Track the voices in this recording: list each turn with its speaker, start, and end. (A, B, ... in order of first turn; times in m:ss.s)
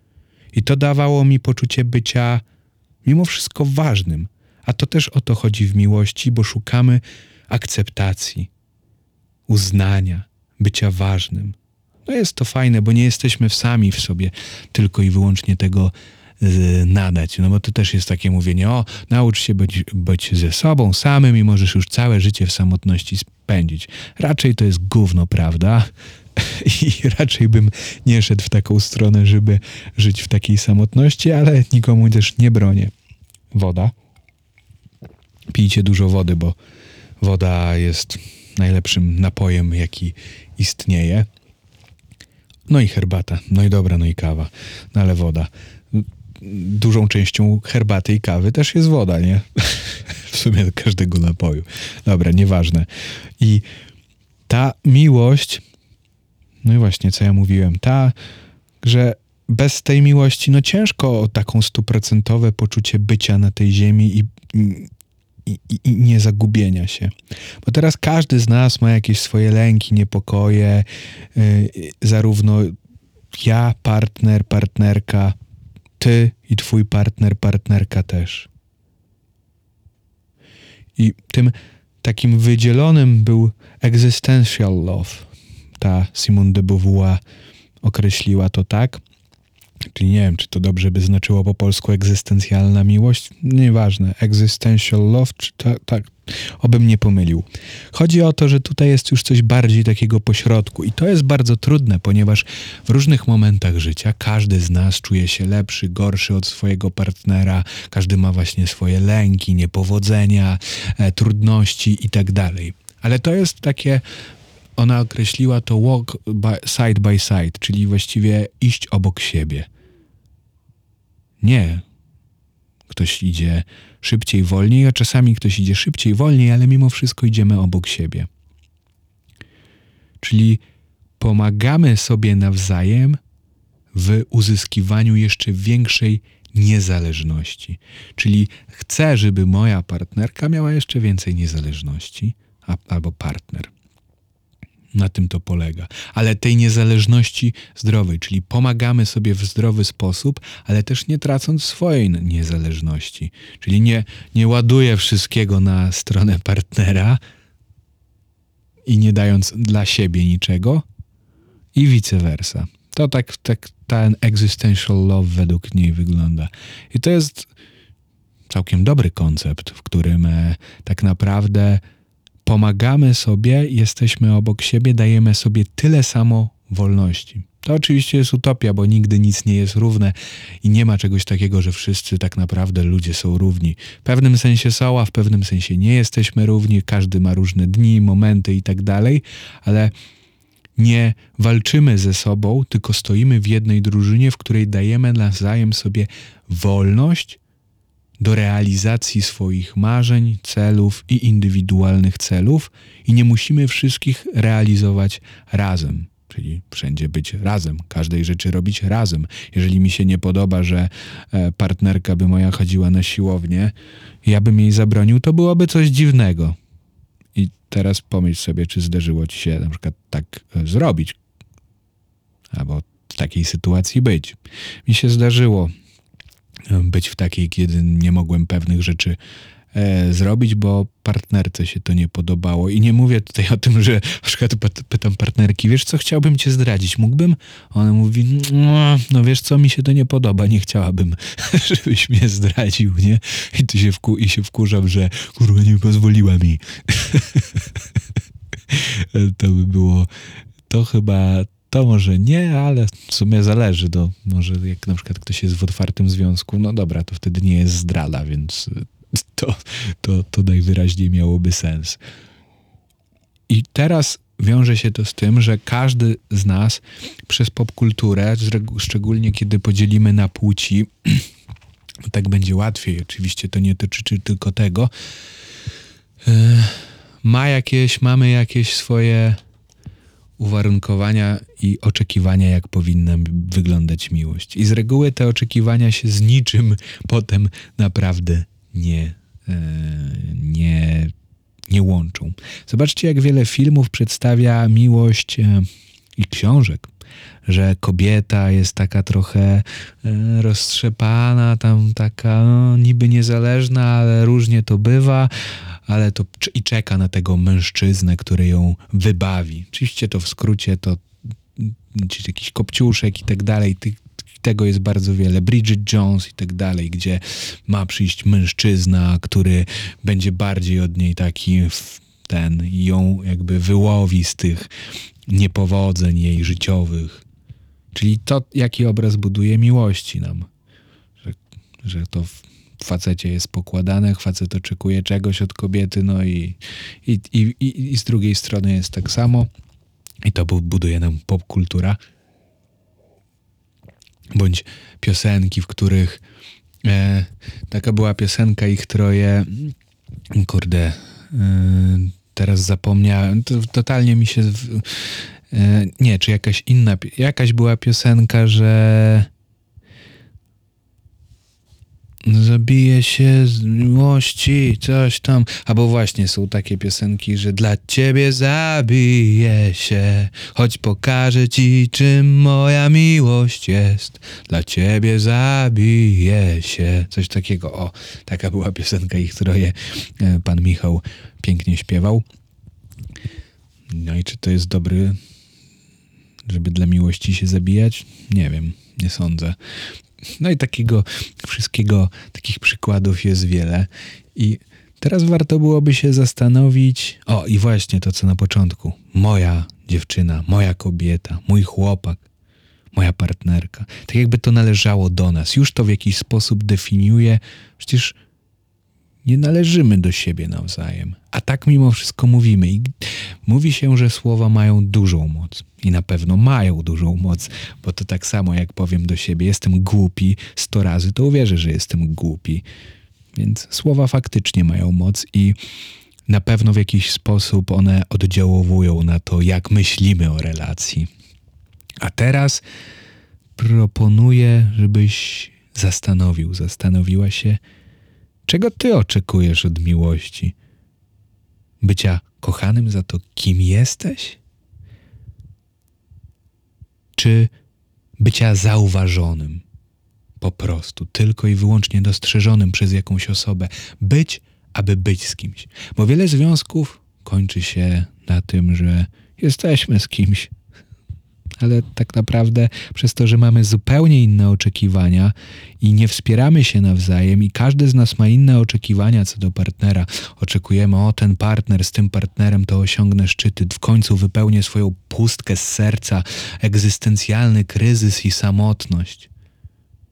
0:00.5-0:02.4 A
0:03.0-0:08.5 A
0:09.5-0:32.9 A
0:33.5-0:33.9 A
0:35.5-0:36.6 A
0:37.2-0:41.3 A
0:42.7-0:52.9 A
0:53.4-0:53.7 A
0:54.5-0:55.6 A
0:56.6-0:58.2 A
0:58.8-1:04.9 A
1:05.4-1:07.1 A
1:07.6-1:12.7 A
1:13.3-1:15.4 A
1:16.0-1:18.5 A
1:21.0-1:27.2 A
1:27.8-1:29.0 A
1:29.9-1:54.0 A
1:54.8-1:59.7 A
2:01.4-2:01.8 A
2:02.9-2:08.3 A
2:10.2-2:10.6 A
2:11.2-2:13.2 A
2:13.9-2:23.7 A
2:24.9-2:37.2 A
2:38.8-2:40.8 A
2:41.7-2:47.5 A
2:48.5-2:51.8 A
2:52.4-3:09.9 A
3:10.8-3:17.4 A
3:18.2-3:36.6 A
3:37.3-3:41.2 A
3:42.5-3:45.7 A
3:46.7-3:49.2 A
3:49.7-4:07.7 A
4:08.7-4:10.1 A
4:10.7-4:22.0 A
4:23.5-4:31.2 A
4:32.0-4:34.9 A
4:36.2-4:39.4 A
4:40.4-4:51.1 A
4:51.7-4:56.9 A
4:57.4-5:05.3 A
5:05.8-5:11.0 A
5:11.6-5:24.7 A
5:25.3-5:27.2 A
5:27.9-5:30.5 A
5:31.2-5:39.5 A
5:40.2-5:42.0 A
5:44.3-5:46.2 A
5:46.8-5:49.7 A
5:50.3-5:59.3 A
6:02.2-6:22.2 A
6:23.9-6:25.2 A
6:26.4-6:29.6 A
6:30.4-6:42.2 A
6:42.9-6:48.2 A
6:49.2-7:02.6 A
7:03.3-7:05.6 A
7:06.3-7:11.1 A
7:12.0-7:12.6 A
7:13.6-7:17.6 A
7:18.4-7:20.6 A
7:21.8-7:24.4 A
7:27.2-7:27.5 A
7:28.2-7:29.6 A
7:30.4-7:40.5 A
7:41.6-7:59.3 A